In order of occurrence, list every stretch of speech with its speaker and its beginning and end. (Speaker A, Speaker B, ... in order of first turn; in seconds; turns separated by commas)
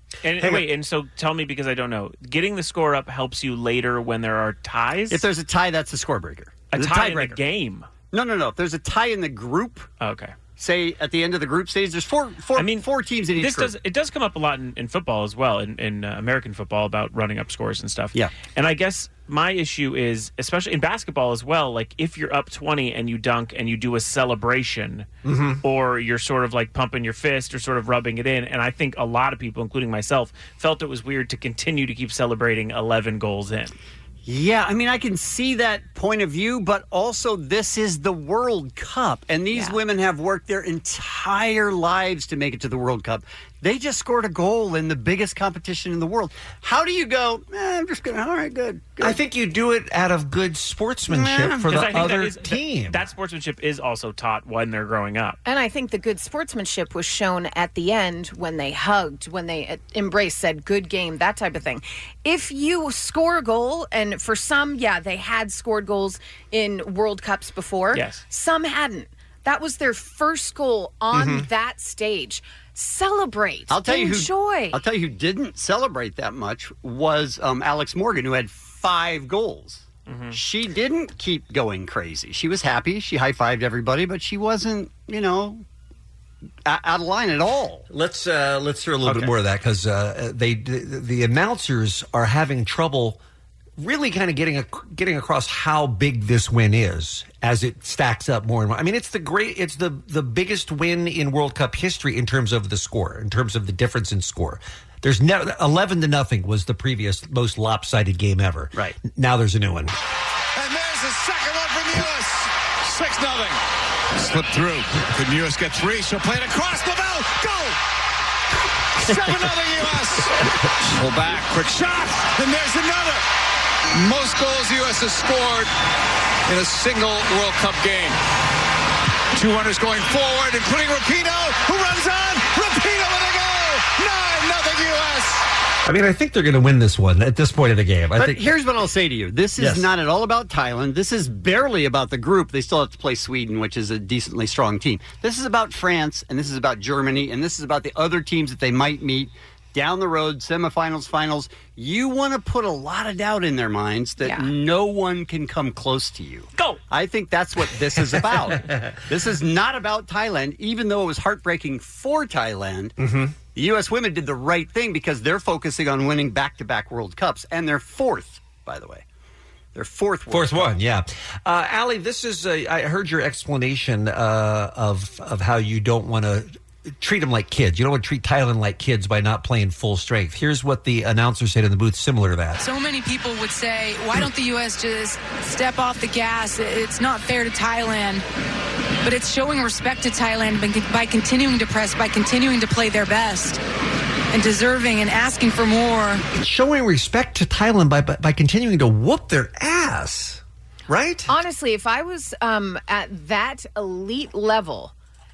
Speaker A: 0.2-5.2, Speaker B: 5.1-7.4, Speaker A: 6.7-7.9, Speaker B: 8.1-9.9, Speaker A: 10.0-10.3, Speaker B: 10.6-13.7, Speaker A: 12.6-25.1, Speaker C: 25.2-25.6, Speaker A: 25.6-33.7, Speaker B: 34.2-49.2, Speaker D: 39.5-39.8, Speaker C: 49.0-53.0, Speaker B: 51.1-51.7, Speaker A: 51.7-55.4, Speaker D: 55.5-74.8, Speaker A: 67.9-68.2, Speaker C: 71.1-71.5, Speaker B: 73.7-85.6, Speaker A: 80.1-80.4, Speaker B: 86.7-87.9, Speaker C: 87.9-93.2, Speaker B: 89.0-89.3, Speaker C: 93.8-110.0, Speaker E: 110.6-113.6, Speaker E: 114.2-117.8, Speaker E: 119.0-123.2, Speaker E: 123.9-125.7, Speaker E: 126.5-128.2, Speaker E: 129.3-135.4, Speaker C: 135.8-138.5, Speaker B: 138.2-162.9, Speaker C: 139.6-139.9, Speaker C: 163.0-163.3, Speaker B: 163.5-169.0, Speaker B: 169.8-170.7, Speaker C: 170.3-182.7, Speaker F: 182.6-188.2, Speaker F: 189.0-193.6, Speaker F: 194.3-196.2, Speaker C: 196.3-201.3, Speaker D: 201.3-204.9